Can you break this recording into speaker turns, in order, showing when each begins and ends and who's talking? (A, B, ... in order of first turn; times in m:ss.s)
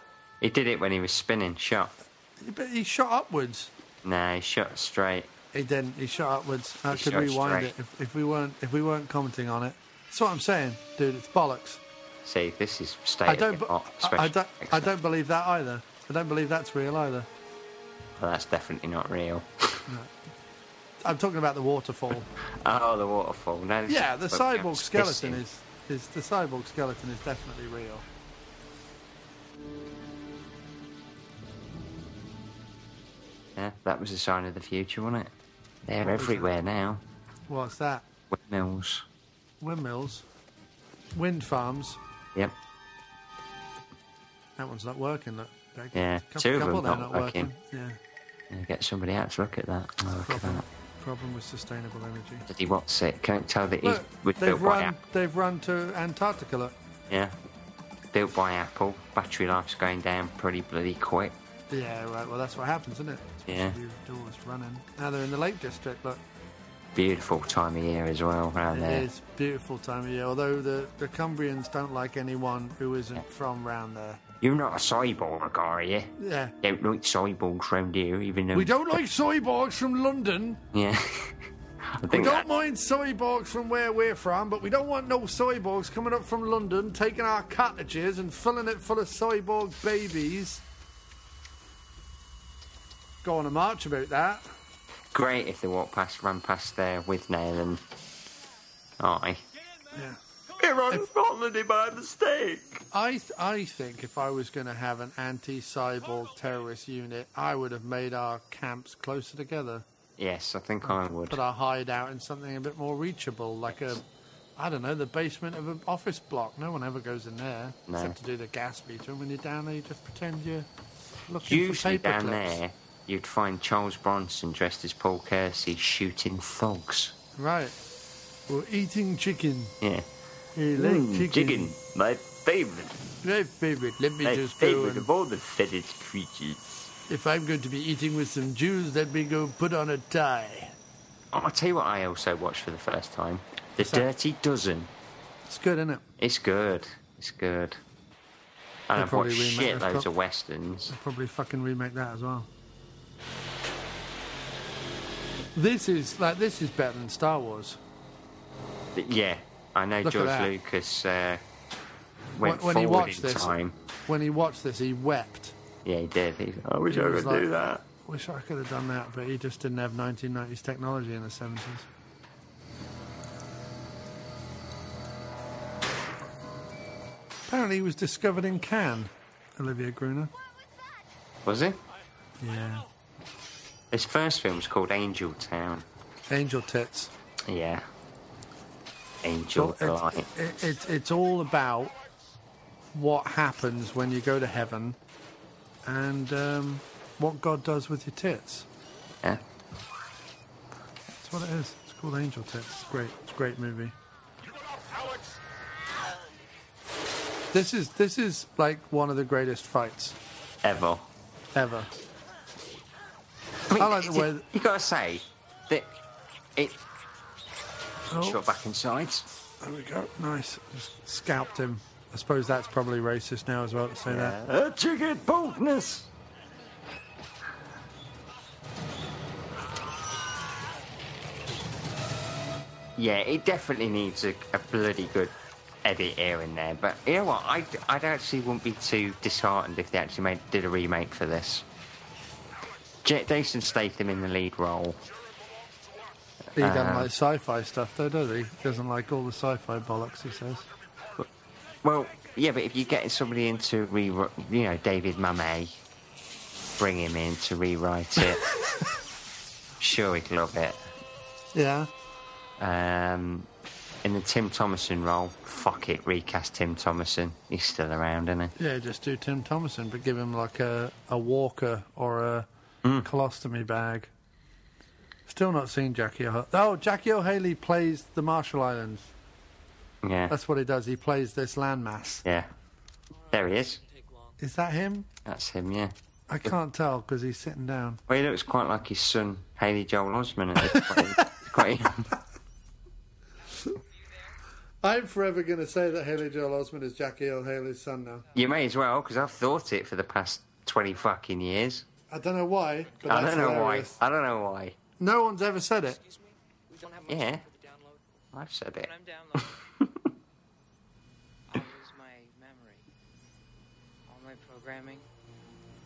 0:00.4-0:01.9 A
0:02.4-0:03.7 B
0:04.0-0:05.3 A
0:05.5-0:11.8 B
0:06.9-0:07.7 A
0:12.2-0:14.9 A
0:13.2-0:17.3 B
0:18.2-0:19.8 A
0:21.0-0:22.3 B
0:22.5-0:25.4 A
0:23.9-0:28.0 B
0:33.6-0:35.3 A
0:35.8-0:37.0 A
0:36.0-0:36.5 B
0:37.5-0:38.1 B
0:38.3-0:39.0 A
0:39.6-0:40.2 B
0:41.1-0:42.0 B
0:44.6-0:48.0 B
0:45.9-0:47.5 A
0:48.5-0:50.6 A
0:50.2-0:52.4 B
0:52.5-0:55.0 A
0:53.8-0:56.7 B
0:57.1-0:57.3 A
0:58.1-1:01.3 A
1:01.7-1:06.2 B
1:03.5-1:03.8 A
1:06.9-1:09.1 A
1:08.7-1:14.2 B
1:14.4-1:19.0 A
1:16.2-1:16.5 B
1:18.5-1:20.6 B
1:20.7-1:21.4 A
1:21.9-1:22.5 A
1:22.1-1:30.6 B
1:33.2-1:34.5 B
1:35.1-1:37.8 A
1:39.0-1:39.4 A
1:40.6-1:42.8 A
1:42.9-1:49.8 B
1:50.2-1:51.4 A
1:50.8-1:54.0 B
1:54.6-2:00.7 B
1:57.9-1:58.2 A
2:01.2-2:02.6 B
2:01.4-2:07.1 A
2:07.4-2:07.8 B
2:08.5-2:09.7 B
2:09.8-2:10.1 A
2:10.6-2:11.7 B
2:10.7-2:13.0 A
2:13.2-2:15.1 B
2:14.2-2:16.7 A
2:17.1-2:20.7 B
2:21.3-2:24.9 A
2:23.8-2:24.1 B
2:25.5-2:26.0 B
2:26.2-2:27.8 A
2:28.9-2:30.9 A
2:28.9-2:30.1 B
2:30.9-2:32.5 B
2:35.6-2:37.8 B
2:38.9-2:41.4 A
2:40.0-2:40.5 B
2:42.4-2:43.8 A
2:42.4-2:43.6 B
2:44.1-2:45.5 B
2:45.8-2:47.8 A
2:46.9-2:51.9 B
2:57.5-3:00.3 B
3:01.4-3:01.8 A
3:02.4-3:02.8 B
3:03.9-3:05.8 A
3:06.3-3:07.1 B
3:07.5-3:07.9 A
3:09.2-3:10.3 A
3:09.5-3:11.9 B
3:12.9-3:15.0 B
3:15.8-3:18.7 B
3:21.2-3:23.9 B
3:27.5-3:30.2 B
3:30.6-3:31.1 A
3:31.5-3:31.9 B
3:33.7-3:35.9 A
3:33.8-3:34.4 B
3:38.1-3:38.4 B
3:38.1-3:39.3 A
3:39.6-3:44.4 B
3:44.1-3:46.1 A
3:53.0-4:01.6 A
4:03.0-4:05.0 A
4:06.6-4:07.1 A
4:06.6-4:10.6 B
4:11.8-4:15.8 A
4:16.8-4:18.4 A
4:19.8-4:20.9 A
4:21.5-4:21.9 B
4:22.6-4:23.5 A
4:24.0-4:28.5 A
4:28.6-4:32.5 B
4:33.0-4:34.1 B
4:35.3-4:39.1 B
4:40.0-4:40.3 A
4:40.3-4:42.2 B
4:42.2-4:42.5 A
4:43.1-4:44.4 C
4:43.3-4:43.8 A
4:44.4-4:45.1 B
4:45.2-4:45.9 A
4:46.3-4:48.0 B
4:48.1-4:52.1 A
4:50.6-4:51.2 B
4:53.5-4:54.3 C
4:54.8-4:58.2 B
4:58.3-4:58.6 C
4:58.3-5:01.8 A
5:02.1-5:04.0 B
5:03.0-5:04.8 A
5:05.0-5:06.0 B
5:05.8-5:08.1 C
5:07.1-5:07.4 A
5:08.3-5:08.9 A
5:08.8-5:09.6 C
5:11.5-5:12.8 C
5:14.1-5:15.0 C